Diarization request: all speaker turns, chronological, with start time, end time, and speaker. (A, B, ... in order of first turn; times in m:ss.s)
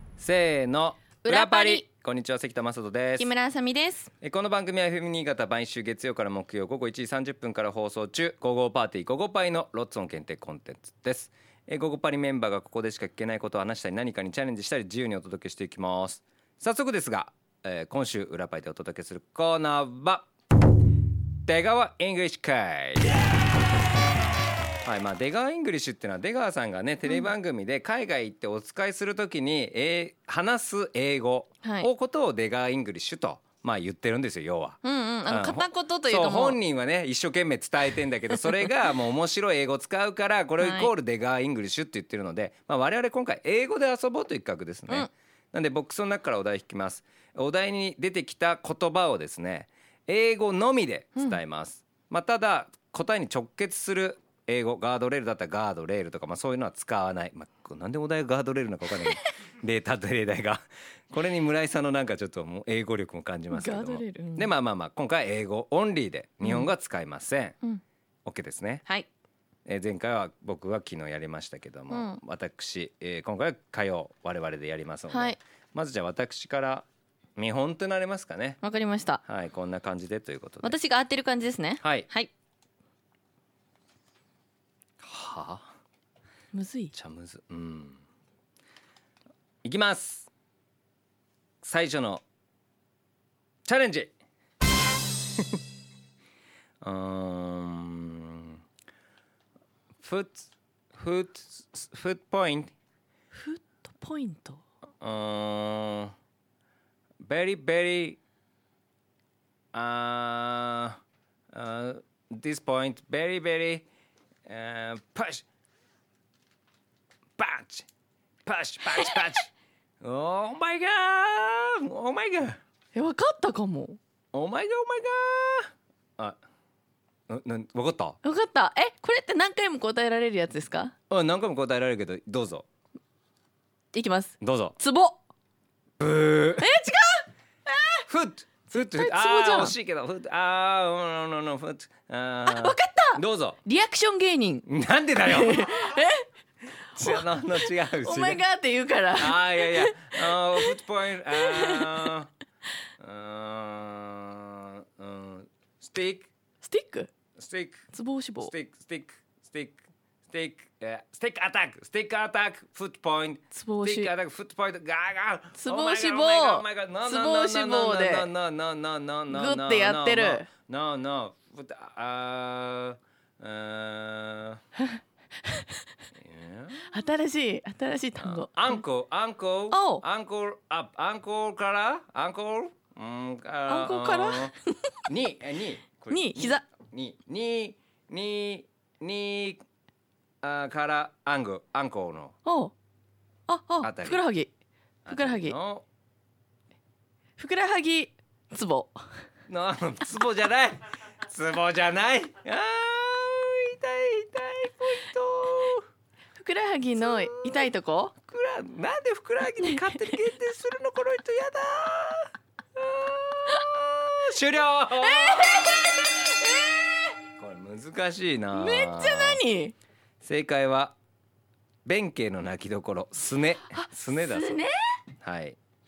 0:00.2-0:03.3 A
0:01.2-0:01.9 B
0:03.2-0:04.1 B
0:04.2-0:20.3 A
0:21.5-0:23.2 A
0:24.8-1:07.6 A
0:31.6-0:31.9 B
0:34.8-0:36.6 B
0:38.3-0:38.9 B
0:40.6-0:40.9 B
1:03.5-1:04.5 B
1:06.4-1:06.7 B
1:08.2-1:08.8 A
1:09.7-1:18.6 A
1:11.9-1:12.2 B
1:15.1-1:15.4 B
1:18.6-1:19.2 B
1:19.2-1:20.8 A
1:20.6-1:22.3 B
1:21.8-1:22.1 A
1:25.0-1:25.7 A
1:26.5-1:26.9 B
1:26.9-1:28.0 A
1:29.6-1:30.3 A
1:31.6-1:32.2 A
1:33.6-1:34.1 A
1:36.8-1:38.6 A
1:40.0-1:42.7 A
1:43.3-1:44.6 B
1:45.0-1:46.1 A
1:47.2-1:48.2 A
1:49.7-1:51.0 A
1:51.5-1:53.9 A
1:54.5-1:55.5 A
1:57.4-1:57.9 A
1:58.4-1:59.5 A
2:00.0-2:02.6 A
2:02.9-2:04.0 B
2:04.3-2:06.4 A
2:07.3-2:08.2 A
2:08.2-2:10.9 B
2:11.1-2:12.7 A
2:13.9-2:15.2 B
2:14.4-2:14.8 A
2:16.0-2:16.7 A
2:16.6-2:18.0 B
2:18.1-2:23.6 A
2:18.7-2:19.7 B
2:22.5-2:24.6 B
2:24.6-2:26.0 A
2:25.2-2:26.3 B
2:27.0-2:28.4 A
2:27.0-2:30.7 B
2:29.2-2:32.3 A
2:31.3-2:32.1 B
2:33.0-2:36.3 A
2:36.6-2:37.1 B
2:37.4-2:37.8 A
2:37.9-2:38.5 B
2:38.4-2:54.6 A
2:43.5-2:44.1 B
2:45.6-2:48.3 B
2:49.3-2:50.5 B
2:56.1-2:56.9 A
2:56.9-2:58.8 B
2:58.2-3:04.6 A
2:59.7-3:00.0 B
3:03.7-3:05.0 B
3:05.1-3:09.6 A
3:06.1-3:06.6 B
3:10.4-3:12.4 A
3:12.4-3:12.7 B
3:13.5-3:14.5 B
3:13.8-3:14.2 A
3:15.0-3:15.9 A
3:15.1-3:15.6 B
3:17.4-3:19.0 B
3:19.5-3:25.9 A
3:26.4-3:28.1 B
3:27.0-3:35.8 A
3:29.6-3:30.2 B
3:35.0-3:37.1 B
3:37.4-3:39.4 A
3:38.5-3:39.8 B
3:40.2-3:41.0 A
3:41.8-3:45.6 A
3:43.7-3:44.8 B